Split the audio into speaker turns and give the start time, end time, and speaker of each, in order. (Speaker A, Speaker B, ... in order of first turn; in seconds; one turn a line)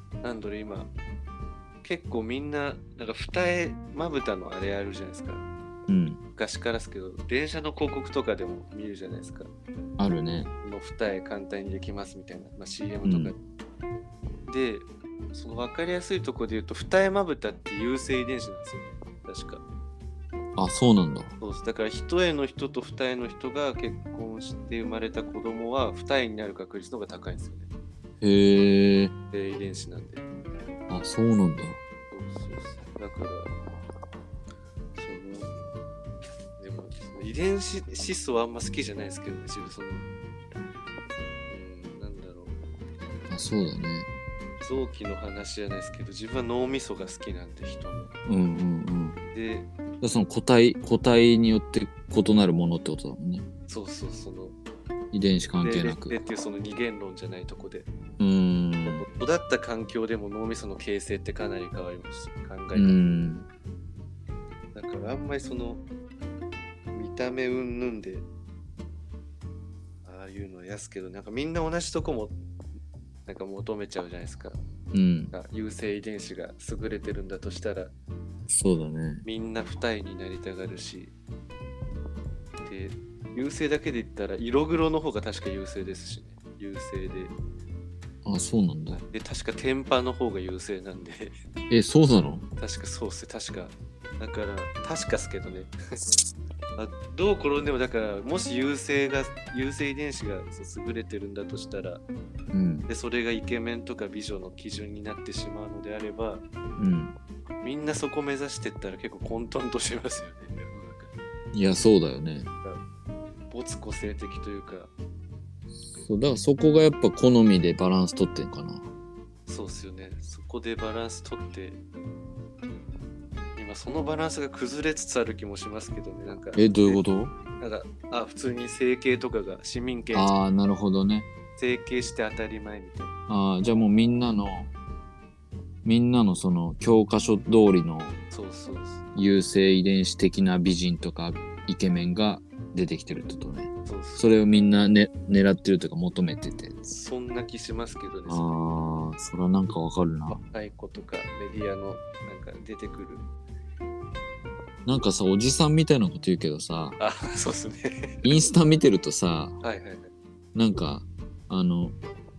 Speaker A: 0.2-0.9
Speaker A: 1.8-5.5
Speaker B: 5.9-6.2
Speaker A: 6.3-9.5
Speaker B: 10.0-10.5
Speaker A: 10.6-13.4
Speaker B: 13.0-13.3
Speaker A: 14.5-19.6
Speaker B: 20.6-21.3
Speaker A: 21.4-27.7
Speaker B: 28.2-29.1
Speaker A: 29.3-30.2
Speaker B: 30.9-31.8
Speaker A: 32.1-33.5
Speaker A: 35.0-35.5
Speaker A: 36.6-40.0
Speaker A: 41.5-42.6
Speaker B: 43.3-44.1
Speaker A: 44.6-48.1
Speaker B: 48.3-49.2
Speaker A: 49.3-49.7
Speaker B: 50.0-53.5
Speaker A: 53.7-54.5
Speaker B: 55.1-56.2
Speaker A: 55.6-57.9
Speaker B: 58.2-59.0
Speaker A: 58.8-63.0
Speaker B: 62.7-63.5
Speaker A: 64.7-65.8
Speaker A: 66.9-68.3
Speaker A: 70.0-72.4
Speaker A: 73.2-74.6
Speaker B: 74.9-75.3
Speaker A: 75.3-77.9
Speaker B: 78.5-79.2
Speaker A: 79.2-81.1
Speaker A: 82.6-87.3
Speaker B: 88.2-89.0
Speaker A: 88.9-91.3
Speaker B: 91.7-92.5
Speaker A: 92.6-95.7
Speaker A: 96.8-102.0
Speaker B: 102.5-102.9
Speaker A: 102.9-106.4
Speaker B: 106.8-107.1
Speaker A: 107.6-111.1
Speaker B: 111.5-112.5
Speaker A: 113.5-114.9
Speaker B: 116.0-118.9
Speaker A: 119.5-121.8
Speaker A: 123.5-127.0
Speaker B: 126.5-127.3
Speaker A: 127.6-130.3
Speaker B: 130.1-131.3
Speaker A: 131.6-133.1
Speaker B: 133.3-134.7
Speaker B: 135.8-138.2
Speaker A: 138.3-139.0
Speaker B: 139.1-146.9
Speaker A: 143.8-144.3
Speaker A: 146.9-148.5
Speaker B: 148.3-150.4
Speaker A: 150.3-153.3
Speaker B: 154.8-157.0
Speaker A: 157.0-158.2
Speaker B: 158.2-159.6
Speaker A: 159.6-160.1
Speaker B: 160.5-161.9